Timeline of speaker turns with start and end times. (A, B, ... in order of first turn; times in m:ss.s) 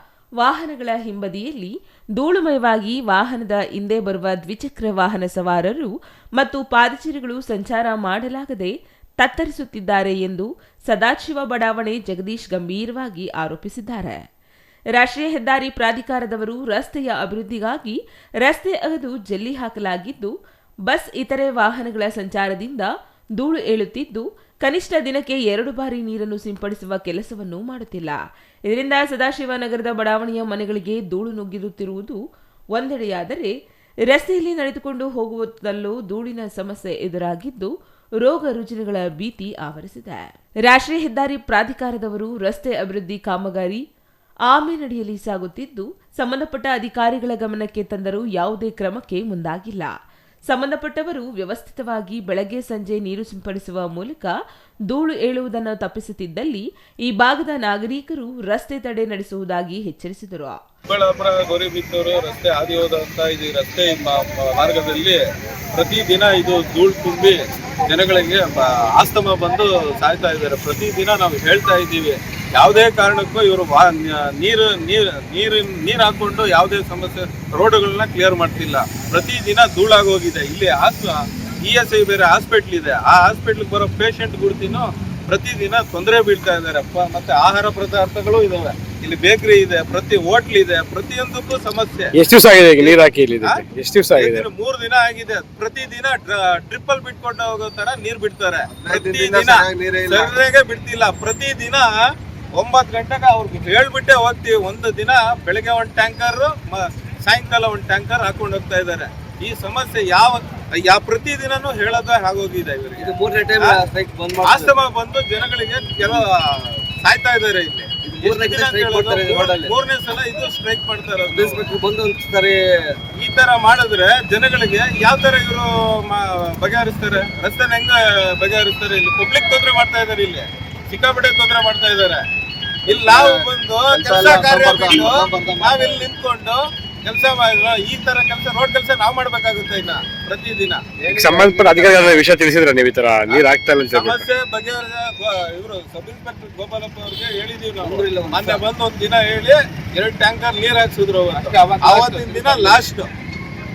0:00.4-0:14.2 A
0:14.9-0:20.3 A
0:20.8-0:32.2 A
0:32.7-0:33.5 A
0:34.1-0:43.8 A
0:44.5-0:49.9 A
0:50.5-0:54.3 A
0:54.9-1:00.6 A
1:00.9-1:05.2 B
1:05.7-1:32.1 B
1:32.1-1:34.4 C
1:32.8-1:42.0 B
1:38.8-1:40.3 D
1:42.5-1:53.8 B
1:53.0-1:54.8 D
1:54.4-2:01.6 B
1:58.0-1:59.7 D
2:01.3-2:03.0 D
2:03.2-2:12.2 B
2:12.9-2:20.9 B
2:12.9-2:16.1 D
2:21.0-2:22.2 D
2:21.1-2:24.2 C
2:23.3-2:33.1 B
2:27.8-2:28.6 D
2:31.3-2:32.8 D